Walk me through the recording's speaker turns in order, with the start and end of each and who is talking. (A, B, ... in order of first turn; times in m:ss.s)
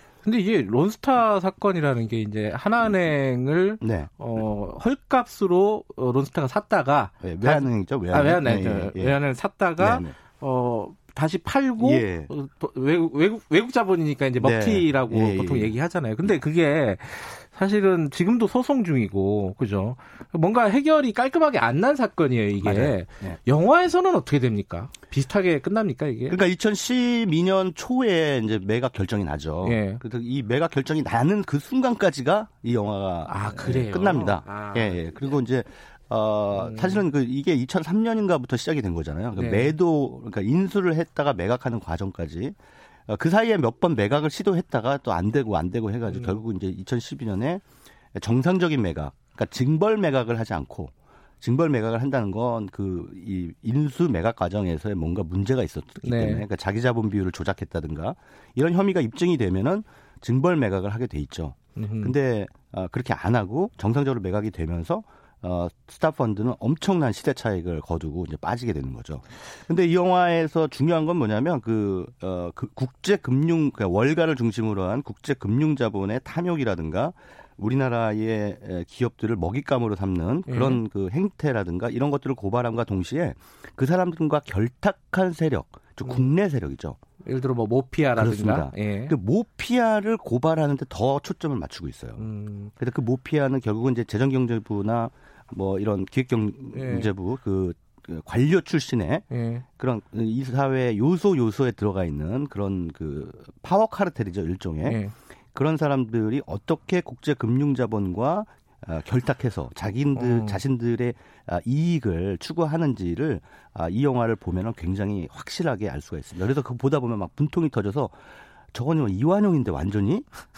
0:00.2-0:26.4 A
0:03.8-0:04.2 B
0:07.2-0:09.2 B
0:09.8-0:10.2 B
0:11.8-0:12.3 B
0:14.4-0:15.8 B
0:22.6-0:23.4 B
0:26.3-0:42.6 B
0:29.6-0:30.0 A
0:33.3-0:35.4 A
0:36.5-0:37.1 A
0:39.4-0:39.8 A
0:43.1-0:47.6 B
0:46.1-0:46.4 A
0:48.2-1:27.0 B
0:56.0-0:56.4 A
1:01.8-1:02.2 A
1:20.5-1:20.8 A
1:26.0-1:26.3 A
1:27.2-1:29.2 A
1:28.2-1:32.2 B
1:32.2-1:32.7 A
1:32.8-1:39.2 B
1:36.7-1:37.1 A
1:39.3-1:39.6 A
1:39.8-1:45.0 B
1:44.9-1:45.1 A
1:45.5-1:58.2 B
1:50.2-1:50.6 A
1:58.7-2:00.3 B